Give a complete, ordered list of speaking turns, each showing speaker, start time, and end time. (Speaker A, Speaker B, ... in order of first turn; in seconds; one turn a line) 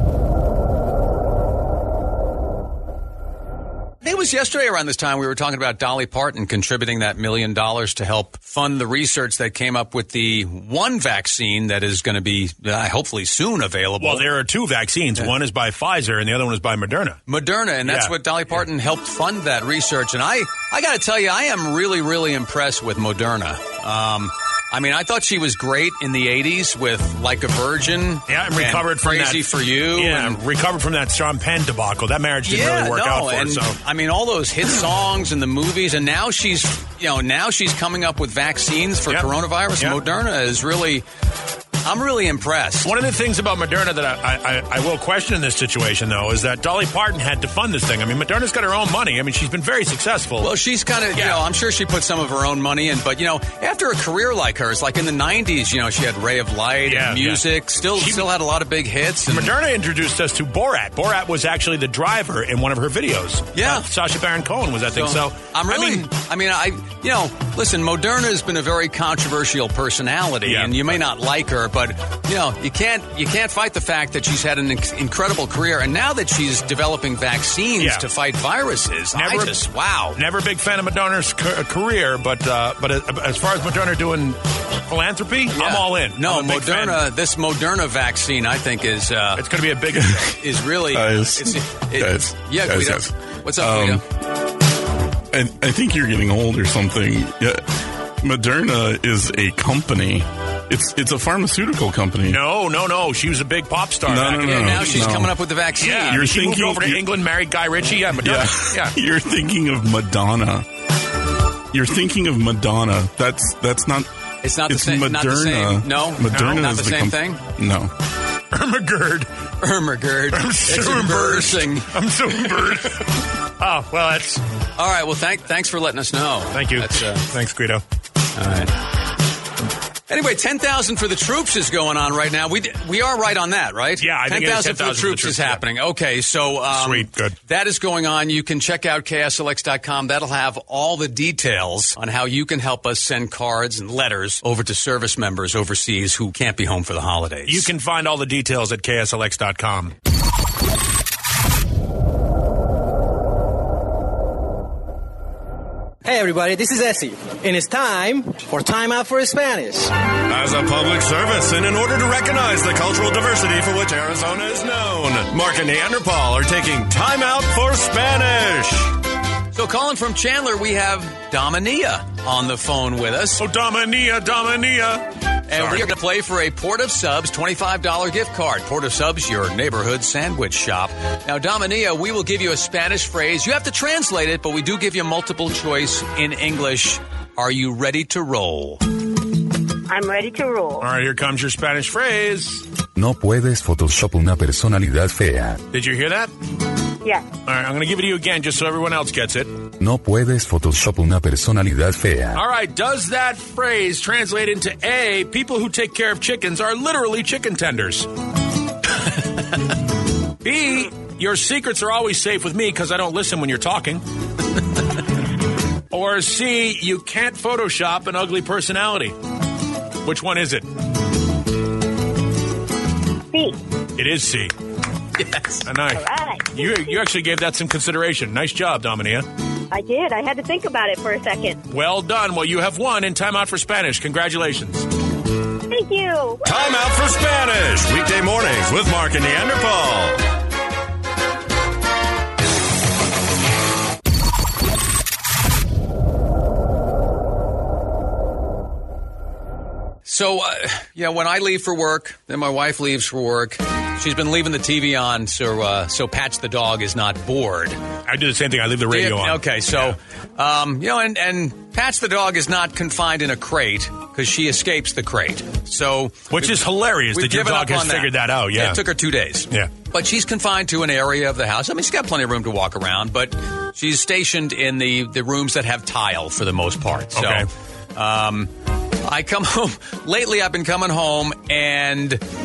Speaker A: 4.0-14.3
Speaker B: 14.0-17.2
Speaker A: 17.3-30.4
Speaker B: 17.8-18.1
Speaker B: 28.3-33.8
Speaker A: 32.5-41.0
Speaker B: 39.1-40.0
Speaker A: 41.9-42.9
Speaker B: 42.8-50.5
Speaker A: 50.4-59.5
Speaker B: 51.1-51.4
Speaker B: 56.9-58.3
Speaker B: 59.3-66.1
Speaker A: 63.5-63.9
Speaker A: 64.9-80.2
Speaker B: 70.4-71.0
Speaker B: 77.8-78.1
Speaker B: 79.1-79.6
Speaker B: 80.2-87.1
Speaker A: 85.5-89.4
Speaker B: 89.3-90.4
Speaker A: 90.4-94.0
Speaker C: 90.9-94.0
Speaker C: 95.3-97.7
Speaker C: 98.2-102.4
Speaker B: 102.3-105.1
Speaker C: 104.1-105.5
Speaker A: 104.2-106.2
Speaker B: 105.7-109.0
Speaker C: 106.1-107.0
Speaker C: 108.2-110.7
Speaker C: 111.7-114.1
Speaker A: 114.4-117.4
Speaker C: 114.7-117.9
Speaker B: 118.5-119.3
Speaker A: 119.6-121.9
Speaker B: 120.3-123.1
Speaker B: 123.6-124.4
Speaker A: 124.8-127.2
Speaker B: 126.5-127.8
Speaker A: 128.4-128.7
Speaker A: 130.1-147.7
Speaker B: 134.0-135.6
Speaker B: 136.7-137.3
Speaker B: 147.5-149.9
Speaker D: 156.1-159.9
Speaker E: 160.3-168.9
Speaker A: 169.5-173.4
Speaker B: 173.4-175.9
Speaker A: 175.5-188.8
Speaker F: 189.9-190.7
Speaker B: 190.8-192.6
Speaker G: 192.9-195.6
Speaker B: 195.7-196.3
Speaker B: 197.4-199.5
Speaker G: 199.8-202.4
Speaker B: 202.3-208.1
Speaker B: 210.4-214.0
Speaker B: 215.9-219.2
Speaker B: 220.0-220.7
Speaker F: 223.3-223.6
Speaker B: 224.0-224.5
Speaker A: 225.2-225.6
Speaker B: 225.7-229.3
Speaker F: 225.9-226.5
Speaker F: 229.7-231.6
Speaker B: 231.7-234.9
Speaker F: 235.7-236.5
Speaker E: 236.4-240.2
Speaker A: 250.1-257.8
Speaker B: 258.1-260.0
Speaker A: 258.9-266.6
Speaker B: 266.3-268.8
Speaker A: 267.1-278.5
Speaker B: 277.1-277.5
Speaker A: 279.0-282.2